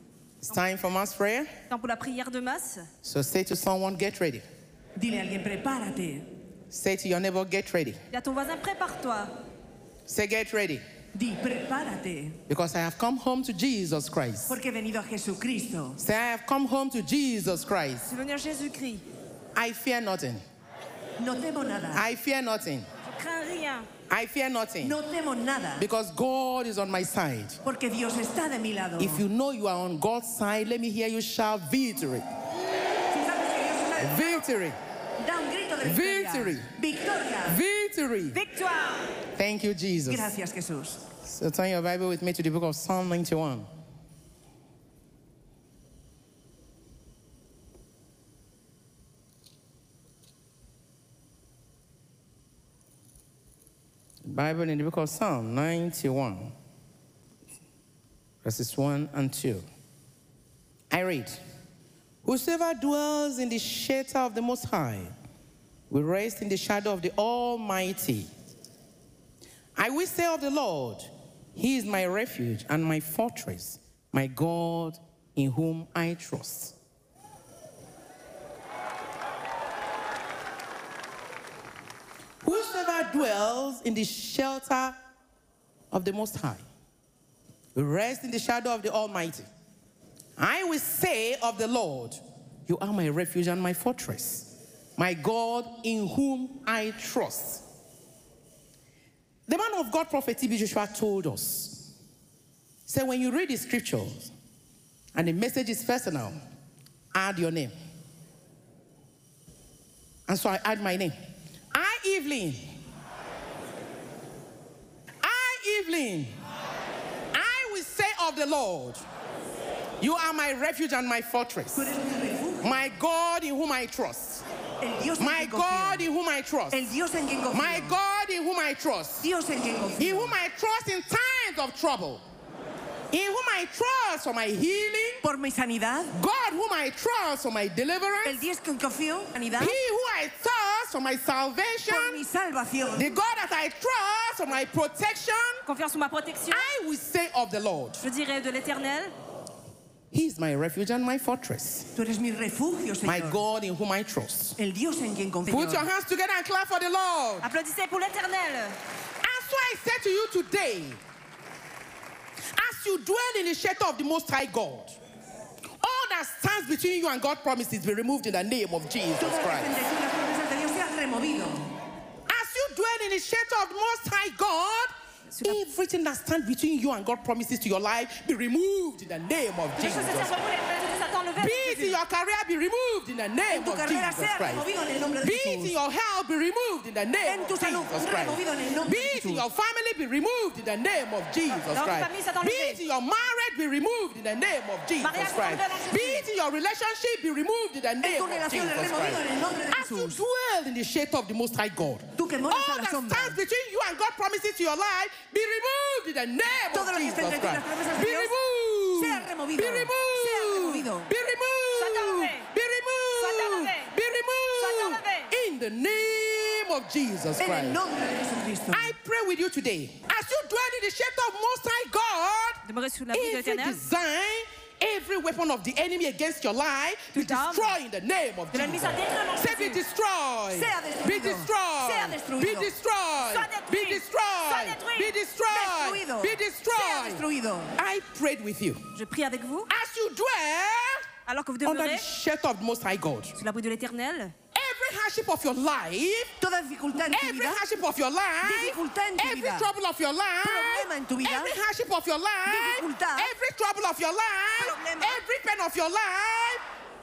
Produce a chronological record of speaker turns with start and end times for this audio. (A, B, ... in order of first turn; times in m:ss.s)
0:00.4-0:01.5 A
0:01.7-0:02.9 B
0:03.0-0:04.4 A
0:05.0-0:06.3 C
0:06.7-0:08.0 A
0:08.1-0:09.3 B
0:10.1-0:10.8 A
0:11.1-0:12.4 C
0:12.5-0:14.5 A
0:14.5-0:16.0 C
0:16.0-0:18.1 A
0:18.0-0:19.0 B
0:19.5-0:20.4 A
0:21.2-0:22.0 C
0:21.9-0:22.9 A
0:23.0-0:23.9 B
0:24.1-0:25.0 A
0:24.8-0:25.8 C
0:25.8-0:27.6 A
0:27.6-0:29.2 C
0:29.0-0:32.2 A
0:33.1-0:34.5 C
0:34.0-0:34.8 A
0:35.2-0:37.6 C
0:35.8-0:36.7 A
0:37.5-0:38.4 A
0:38.3-0:39.1 B
0:39.4-0:40.3 A
0:40.1-0:41.0 C
0:41.2-0:43.7 A
0:54.2-0:56.5 A
0:58.4-0:59.6 A
1:00.9-1:01.4 A
1:02.2-1:05.1 A
1:05.9-1:08.3 A
1:09.8-1:16.7 A
1:22.4-1:25.0 A
1:25.9-1:26.6 A
1:27.7-1:29.5 A
1:30.4-1:37.6 A
1:39.5-1:41.8 A
1:42.9-1:44.3 A
1:45.1-1:46.4 A
1:47.1-1:47.7 A
1:50.3-1:51.2 A
1:51.7-1:52.7 A
1:55.2-1:56.3 A
1:57.3-1:59.0 A
2:00.0-2:01.9 A
2:01.7-2:02.8 C
2:02.6-2:04.4 A
2:04.8-2:06.0 C
2:05.2-2:06.8 A
2:06.7-2:08.0 C
2:07.5-2:09.2 A
2:09.2-2:10.3 C
2:10.0-2:12.2 A
2:13.1-2:15.2 A
2:15.2-2:16.1 C
2:16.1-2:18.4 A
2:18.2-2:19.8 C
2:19.6-2:22.2 A
2:21.9-2:23.2 C
2:23.0-2:25.6 A
2:25.6-2:26.7 B
2:26.5-2:28.0 A
2:28.0-2:29.1 B
2:30.1-2:31.9 A
2:31.9-2:33.4 C
2:33.0-2:34.6 A
2:34.6-2:35.8 C
2:35.5-2:37.4 A
2:37.4-2:38.8 B
2:39.2-2:41.0 A
2:42.6-2:45.0 A
2:45.8-2:49.8 A
2:49.2-2:51.7 C
2:52.3-3:00.3 A
2:59.8-3:02.0 B
3:01.4-3:04.6 A
3:03.5-3:05.8 C
3:05.2-3:37.8 A
3:07.2-3:09.4 C
3:11.5-3:12.8 B
3:15.0-3:16.2 B
3:18.0-3:20.2 C
3:22.2-3:23.4 C
3:26.7-3:28.3 C
3:29.0-3:31.1 C
3:31.8-3:32.4 B
3:33.2-3:33.9 B
3:34.6-3:35.3 B
3:37.4-3:38.9 C
3:38.7-3:42.6 A
3:42.6-3:43.8 B
3:43.1-3:57.2 A
3:47.1-3:47.7 B
3:48.5-3:49.8 B
3:50.5-3:52.7 C
3:53.2-3:55.1 B
3:55.5-3:57.7 C
3:57.8-3:58.8 A
3:58.9-3:59.7 B
3:59.7-4:01.1 A
4:01.2-4:02.0 B
4:01.6-4:03.3 A
4:03.4-4:04.3 B
4:04.5-4:06.3 A
4:06.4-4:07.6 C
4:07.1-4:16.6 A
4:08.4-4:09.7 C
4:10.4-4:11.6 C
4:12.5-4:13.3 C
4:14.6-4:15.2 C